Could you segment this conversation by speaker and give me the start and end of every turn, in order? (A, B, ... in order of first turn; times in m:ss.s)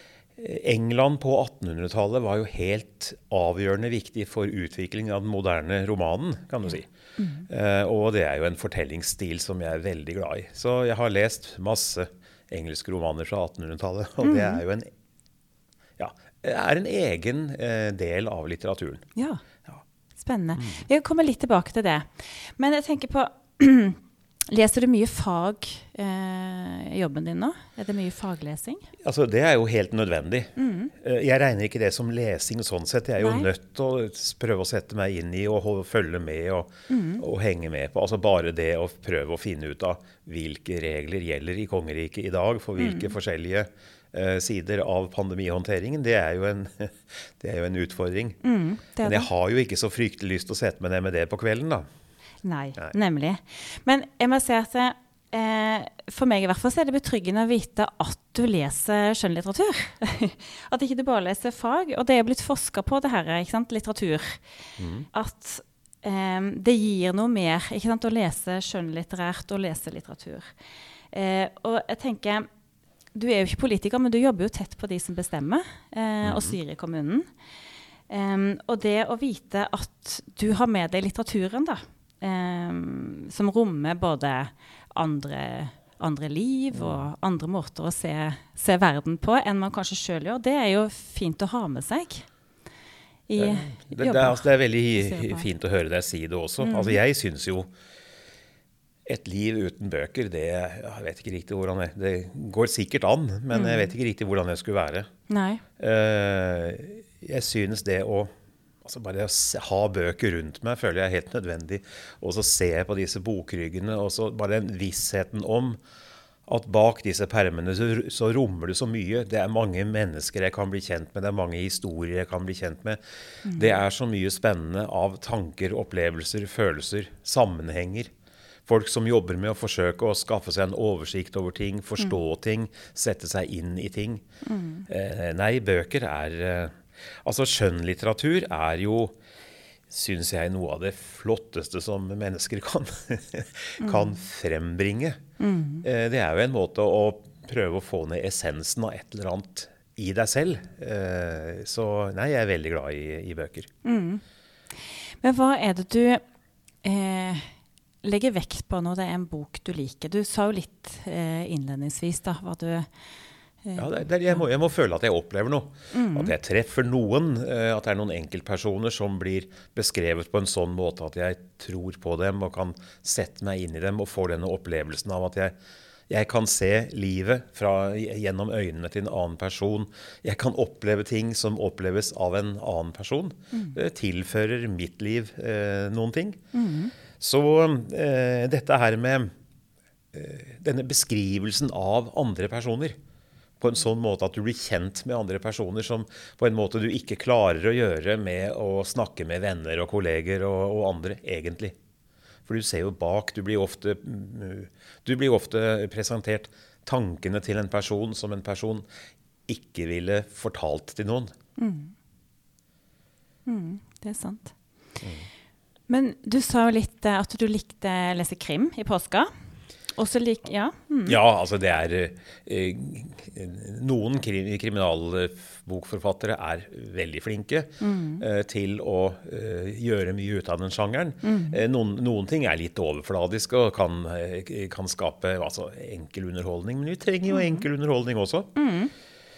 0:00.4-0:06.9 A
0:07.2-0:07.5 B
0:07.5-0:14.9 A
0:14.2-0:14.6 B
0:16.0-0:19.0 A
0:19.2-0:19.4 B
0:20.2-0:28.9 B
0:20.6-0:20.8 A
0:29.0-0:48.4 A
0:30.6-0:30.9 B
0:33.2-0:33.5 B
0:36.9-0:37.2 B
0:42.8-0:43.1 B
0:48.4-0:49.3 B
0:49.0-0:51.8 A
0:52.4-1:04.4 B
1:04.8-1:05.1 A
1:05.1-1:10.5 B
1:11.1-1:12.4 B
1:13.1-1:17.3 B
1:16.2-1:16.6 A
1:18.1-1:32.2 B
1:26.7-1:27.1 A
1:33.3-1:35.5 B
1:33.4-1:37.7 A
1:36.6-1:37.0 B
1:39.0-1:45.1 A
1:43.5-1:43.9 B
1:45.3-1:45.6 B
1:45.8-1:48.3 A
1:48.8-1:55.8 A
1:56.5-2:08.1 A
2:03.4-2:03.7 B
2:08.6-2:14.2 A
2:14.4-2:14.8 B
2:14.9-2:19.2 A
2:19.9-2:25.2 A
2:23.8-2:24.1 B
2:25.4-2:25.8 B
2:25.8-2:33.7 A
2:33.8-2:34.2 B
2:34.9-2:36.2 B
2:36.8-2:37.5 B
2:38.0-2:42.9 B
2:43.6-2:44.4 B
2:43.8-2:55.5 A
2:45.9-2:46.3 B
2:56.1-3:06.4 A
3:06.5-3:06.9 B
3:07.2-3:09.3 A
3:10.1-3:13.0 A
3:13.6-3:21.7 A
3:22.4-3:28.8 A
3:29.5-3:31.3 A
3:31.6-3:31.9 B
3:33.4-3:34.5 B
3:35.0-3:35.3 A
3:35.9-3:39.3 B
3:39.9-3:41.2 B
3:41.0-3:58.5 A
3:47.8-3:48.2 B
3:51.2-3:51.6 B
3:57.3-3:57.6 B
3:58.6-3:58.9 B